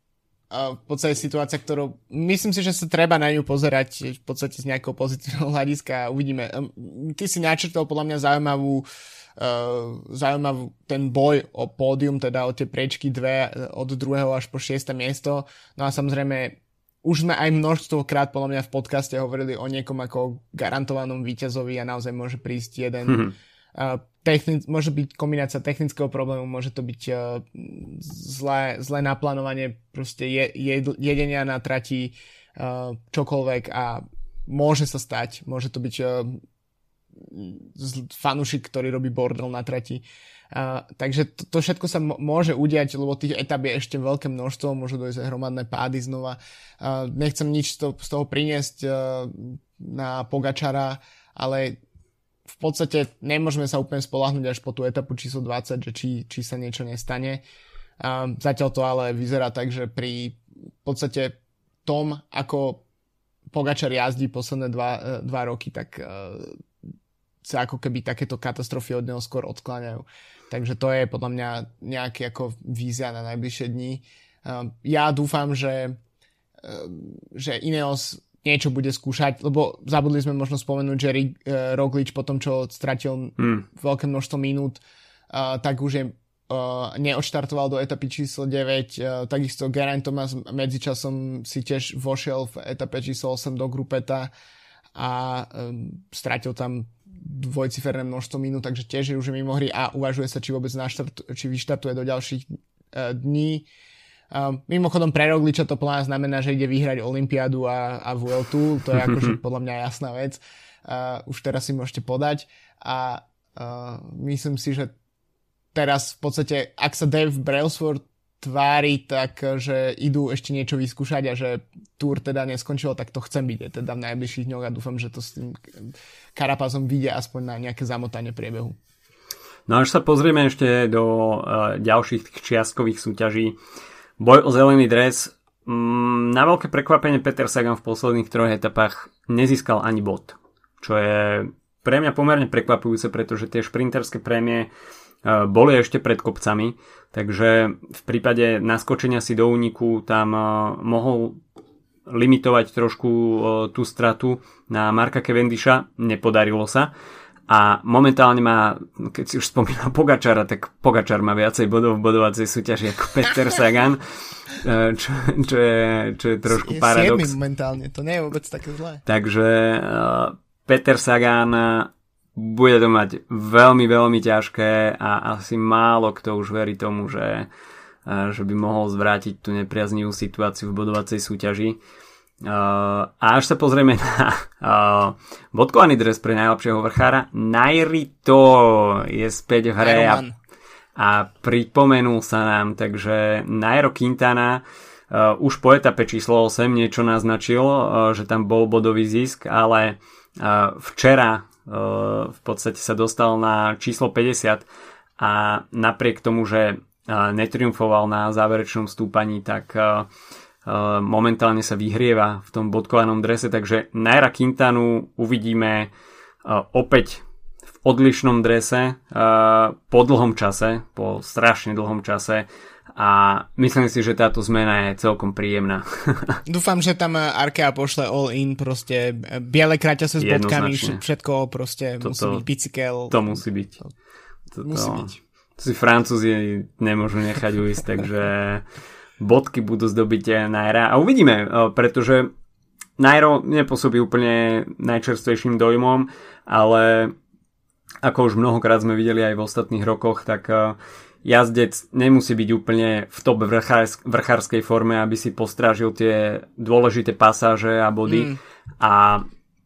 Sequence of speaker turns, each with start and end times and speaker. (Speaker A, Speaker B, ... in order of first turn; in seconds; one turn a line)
Speaker A: 0.5-8.8
Speaker A: 9.4-36.4
Speaker B: 23.1-23.3
Speaker A: 37.1-51.8
Speaker A: 52.5-57.4
Speaker A: 58.0-62.8
Speaker A: 63.5-66.6
Speaker A: 67.4-76.0
Speaker A: 76.6-84.8
Speaker B: 83.4-83.7
Speaker A: 85.3-94.3
Speaker A: 94.9-103.7
Speaker A: 104.3-114.9
Speaker B: 109.1-109.3
Speaker A: 115.7-128.8
Speaker B: 129.7-133.6
Speaker B: 134.2-144.7
Speaker B: 145.2-151.4
Speaker B: 152.1-156.9
Speaker B: 157.5-164.0
Speaker B: 164.5-167.3
Speaker A: 166.5-169.0
Speaker B: 169.0-177.5
Speaker B: 178.0-181.8
Speaker B: 182.4-190.2
Speaker A: 189.8-190.3
Speaker B: 190.9-204.7
Speaker B: 205.2-210.1
Speaker B: 210.6-215.9
Speaker B: 216.4-217.2
Speaker B: 217.8-226.4
Speaker A: 226.4-233.1
Speaker B: 230.2-231.0
Speaker B: 232.0-232.4
Speaker B: 233.1-233.8
Speaker B: 234.5-238.7
Speaker A: 234.6-235.2
Speaker B: 239.2-242.3
Speaker B: 243.0-247.1
Speaker B: 248.0-259.2
Speaker A: 258.1-258.4